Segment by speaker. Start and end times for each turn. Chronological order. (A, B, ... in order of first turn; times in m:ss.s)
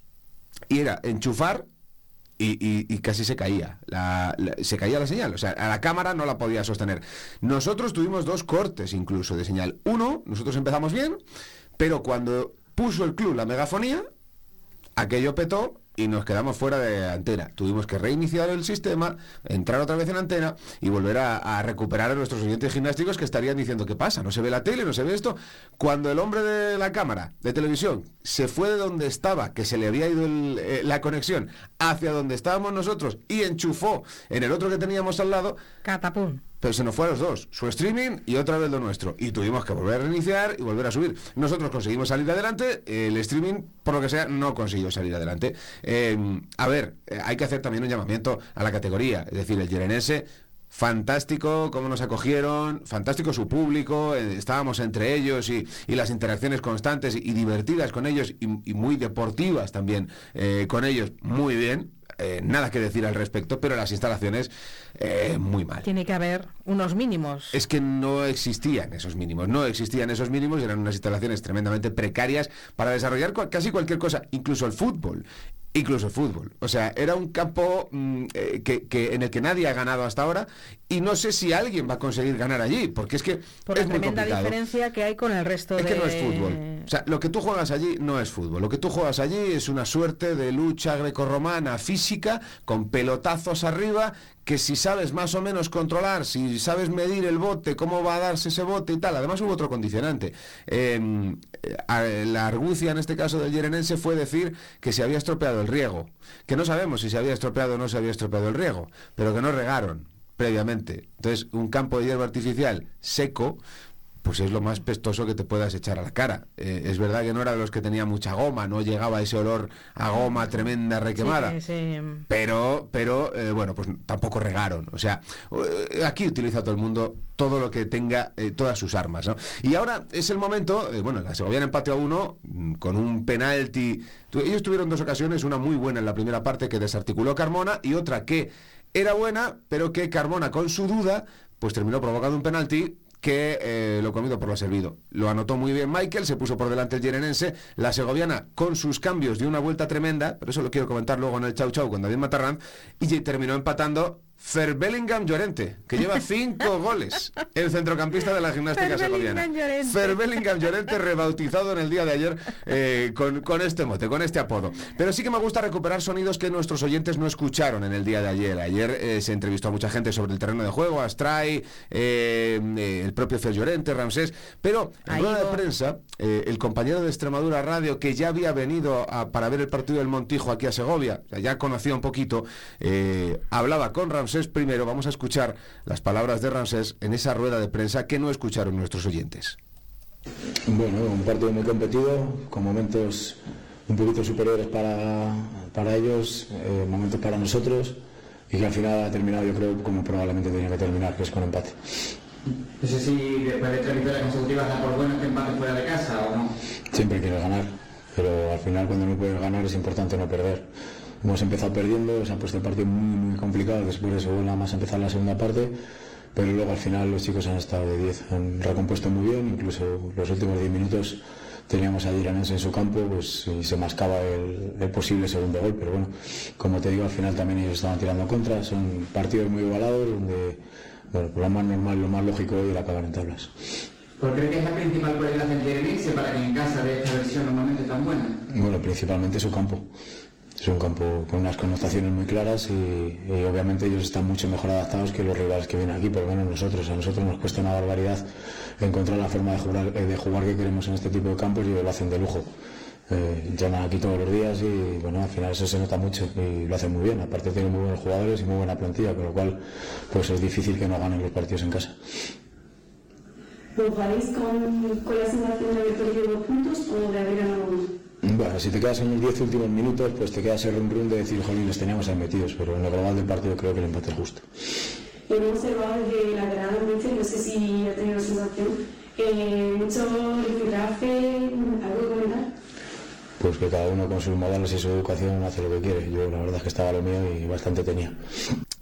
0:00.7-0:01.7 A
0:02.4-0:11.2 A
0:11.8-0:14.1 A
0:15.0-0:35.6 A
0:35.8-0:36.4 B
0:36.6-1:05.9 A
1:05.8-1:07.6 B
1:07.5-1:24.6 A
1:23.7-1:26.9 B
1:25.8-1:53.6 A
1:54.2-2:01.6 A
2:00.2-2:02.2 B
2:02.3-3:09.6 A
2:38.8-2:40.2 B
2:55.1-2:55.6 B
3:10.7-3:22.2 C
3:22.8-3:26.6 D
3:26.9-3:35.8 C
3:36.3-3:53.6 C
3:54.2-3:58.4 D
3:58.5-3:59.9 C
4:00.6-4:12.5 C
4:13.1-4:22.1 C
4:23.8-4:27.9 E
4:28.2-4:34.5 C
4:35.3-4:42.5 E
4:43.4-4:48.2 C